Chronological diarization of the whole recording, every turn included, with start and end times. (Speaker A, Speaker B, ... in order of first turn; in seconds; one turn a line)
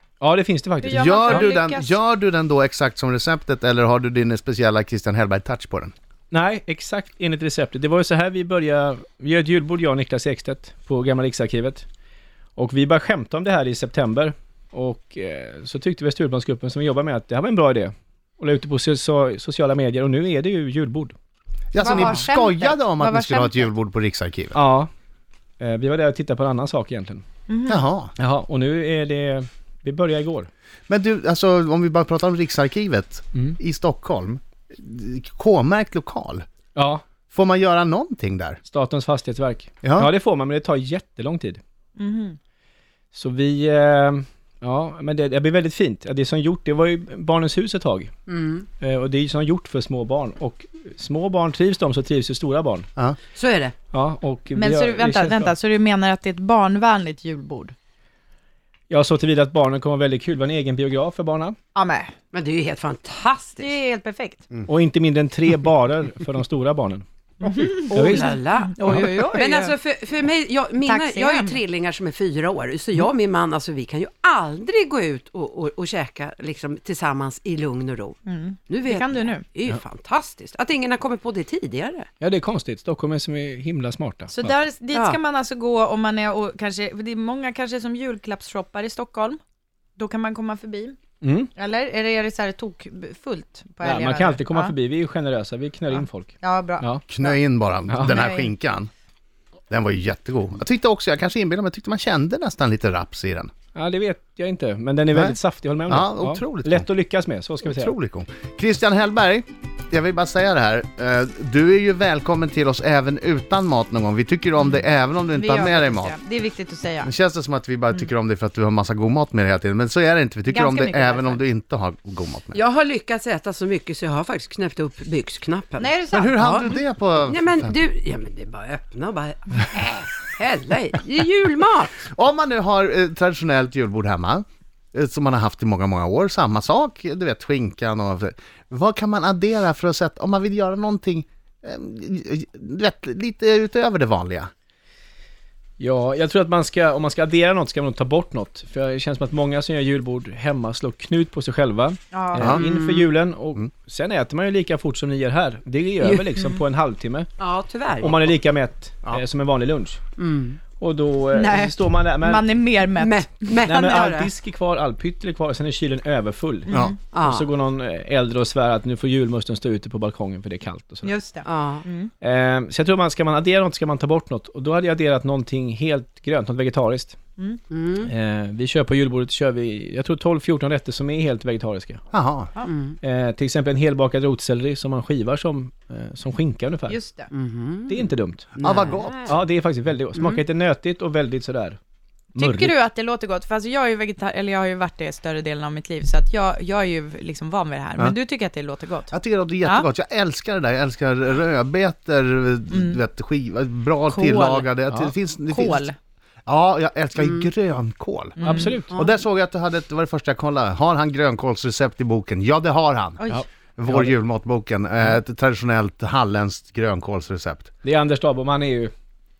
Speaker A: 0.2-1.5
Speaker B: 0.8-2.0
Speaker C: 0.9-5.9
Speaker A: 6.3-11.8
Speaker A: 12.6-21.1
Speaker C: 21.7-24.6
Speaker B: 21.8-23.7
Speaker A: 24.5-24.9
Speaker A: 25.6-27.2
Speaker B: 27.5-27.8
Speaker C: 27.7-28.1
Speaker A: 28.2-30.5
Speaker C: 30.9-36.4
Speaker A: 36.8-37.0
Speaker C: 37.3-38.6
Speaker A: 38.7-41.6
Speaker C: 39.8-40.1
Speaker B: 42.0-42.4
Speaker A: 43.1-48.1
Speaker D: 48.3-48.7
Speaker A: 48.8-52.9
Speaker D: 53.4-53.8
Speaker A: 53.9-55.5
Speaker B: 54.5-57.7
Speaker A: 58.9-61.6
Speaker B: 61.7-62.1
Speaker D: 62.3-63.7
Speaker B: 63.6-64.4
Speaker A: 64.7-67.0
Speaker B: 67.4-69.8
Speaker A: 67.7-69.2
Speaker D: 67.9-82.1
Speaker B: 70.8-71.6
Speaker B: 78.2-79.4
Speaker A: 82.2-84.5
Speaker B: 84.3-89.4
Speaker B: 90.0-91.0
Speaker A: 91.2-91.5
Speaker B: 91.5-94.7
Speaker A: 93.8-97.0
Speaker B: 95.9-97.4
Speaker C: 97.1-98.9
Speaker A: 97.9-98.2
Speaker B: 98.0-98.5
Speaker C: 99.7-103.5
Speaker A: 103.8-107.9
Speaker C: 105.1-106.9
Speaker C: 107.6-116.2
Speaker B: 115.3-117.1
Speaker C: 117.0-122.6
Speaker B: 120.5-121.4
Speaker D: 122.5-125.9
Speaker B: 125.8-126.5
Speaker C: 126.1-127.8
Speaker D: 126.4-132.1
Speaker C: 132.1-144.5
Speaker A: 145.8-157.3
Speaker B: 152.1-152.9
Speaker C: 152.4-152.7
Speaker D: 157.4-158.3
Speaker A: 158.0-160.0
Speaker D: 160.2-160.6
Speaker A: 160.8-162.5
Speaker B: 161.3-164.1
Speaker D: 163.0-164.3
Speaker A: 163.7-171.1
Speaker B: 166.7-167.0
Speaker C: 166.7-166.9
Speaker D: 167.1-167.5
Speaker B: 171.0-172.1
Speaker D: 171.4-171.8
Speaker A: 172.2-177.2
Speaker D: 177.7-178.1
Speaker A: 178.0-182.0
Speaker C: 182.1-182.5
Speaker D: 182.7-183.0
Speaker A: 183.0-187.0
Speaker B: 186.9-187.3
Speaker D: 187.3-189.4
Speaker A: 187.9-188.5
Speaker C: 188.6-189.3
Speaker A: 189.3-191.8
Speaker D: 190.2-190.4
Speaker B: 192.4-199.1
Speaker A: 192.4-192.8
Speaker C: 199.1-205.9
Speaker B: 202.7-203.0
Speaker B: 204.1-204.7
Speaker B: 205.5-205.9
Speaker C: 206.5-217.7
Speaker B: 208.4-209.1
Speaker A: 208.4-208.9
Speaker A: 213.3-214.1
Speaker A: 217.8-218.9